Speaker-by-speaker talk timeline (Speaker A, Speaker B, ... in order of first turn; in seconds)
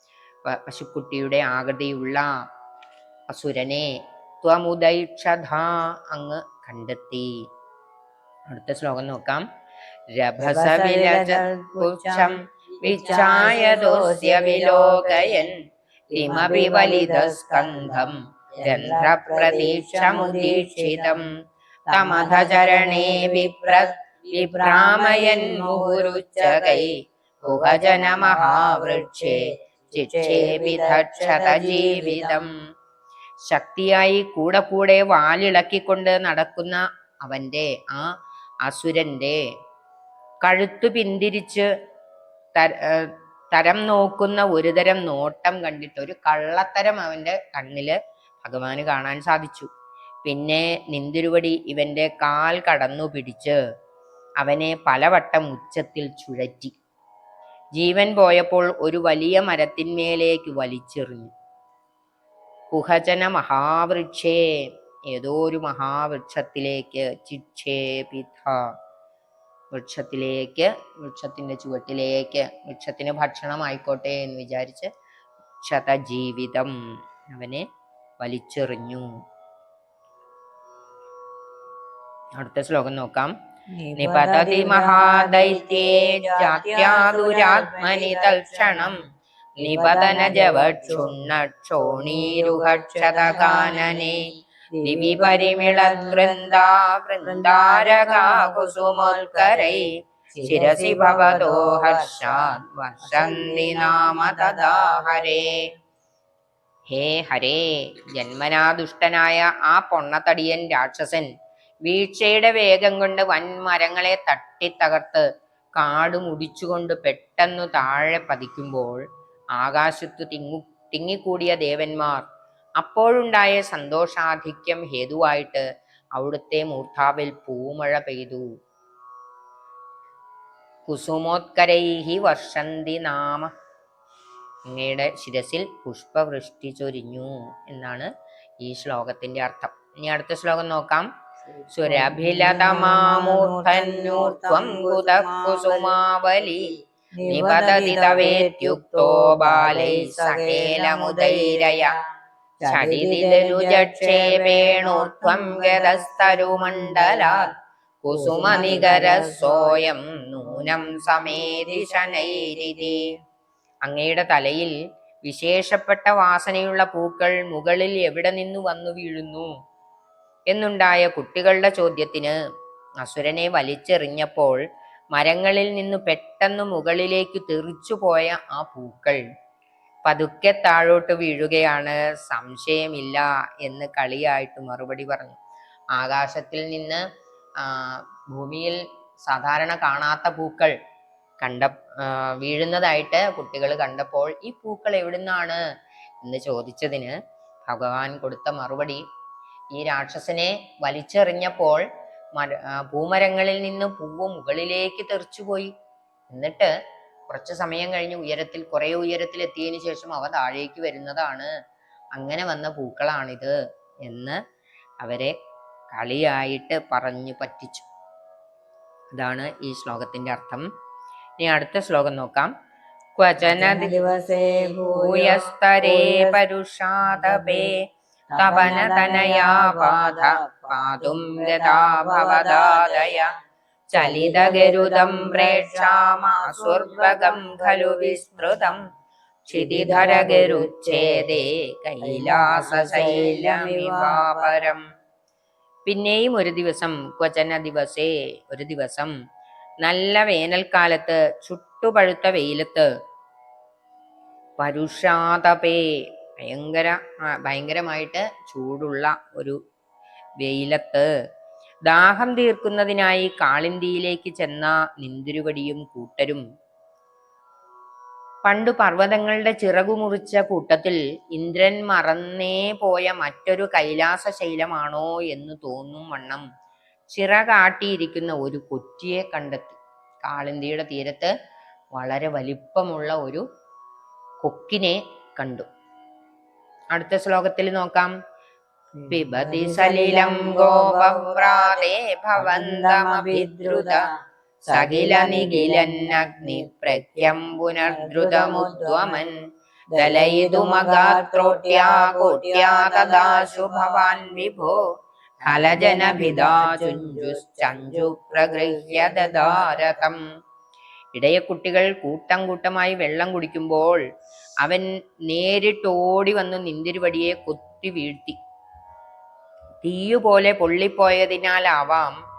Speaker A: 0.4-2.3, 3.3-3.9, 4.4-7.3, 8.5-9.4, 10.1-15.6, 16.1-21.3, 21.9-32.5, 33.4-38.1, 38.6-39.4, 40.4-41.7, 42.5-49.7, 50.2-53.6, 54.4-56.8, 57.8-61.3, 62.7-68.7, 69.7-74.9, 75.6-76.7, 77.3-77.7, 78.2-79.1, 82.4-83.3, 84.0-89.0, 89.6-94.3, 94.8-105.6, 106.9-111.3, 111.8-119.0, 119.6-122.2, 122.8-125.6, 126.2-128.4, 130.9-133.5, 134.7-138.1, 138.6-141.1, 141.7-151.9, 152.6-163.0, 163.8-164.7, 165.2-169.5, 170.5-172.3, 173.0-174.6, 175.1-179.2, 180.0-185.4, 185.9-187.0, 187.6-190.7, 191.4-195.6, 196.2-197.1, 197.7-199.0, 199.7-205.7, 206.3-206.7, 207.3-211.5, 212.2-213.5, 214.0-214.4, 215.0-215.3, 215.9-217.9, 219.1-220.7, 221.4-222.5, 223.2-224.0, 224.8-227.8, 228.3-233.3, 233.9-238.8, 239.5-244.8, 245.8-249.1, 249.8-252.9, 254.6-255.8, 256.4-259.6, 260.4-261.1, 261.9-266.4, 268.4-276.4, 277.1-281.3, 281.9-283.4, 284.4-285.7, 286.9-288.1, 289.1-294.0, 294.7-299.3, 299.9-304.8, 305.4-310.2, 311.1-314.0, 314.6-318.4, 319.8-322.2
Speaker B: 10.4-15.4, 16.1-21.2, 21.9-26.9, 27.4-32.4, 83.8-89.0, 89.6-91.3, 91.8-96.6, 97.2-99.8, 100.3-105.2, 141.6-146.0, 147.2-151.9, 152.6-157.5, 158.1-159.8, 160.4-162.9, 223.4-226.4, 227.1-227.7, 228.3-233.3, 233.9-238.7, 239.5-241.3, 242.0-244.7, 289.0-294.1, 294.7-299.2, 299.9-304.2, 305.5-309.9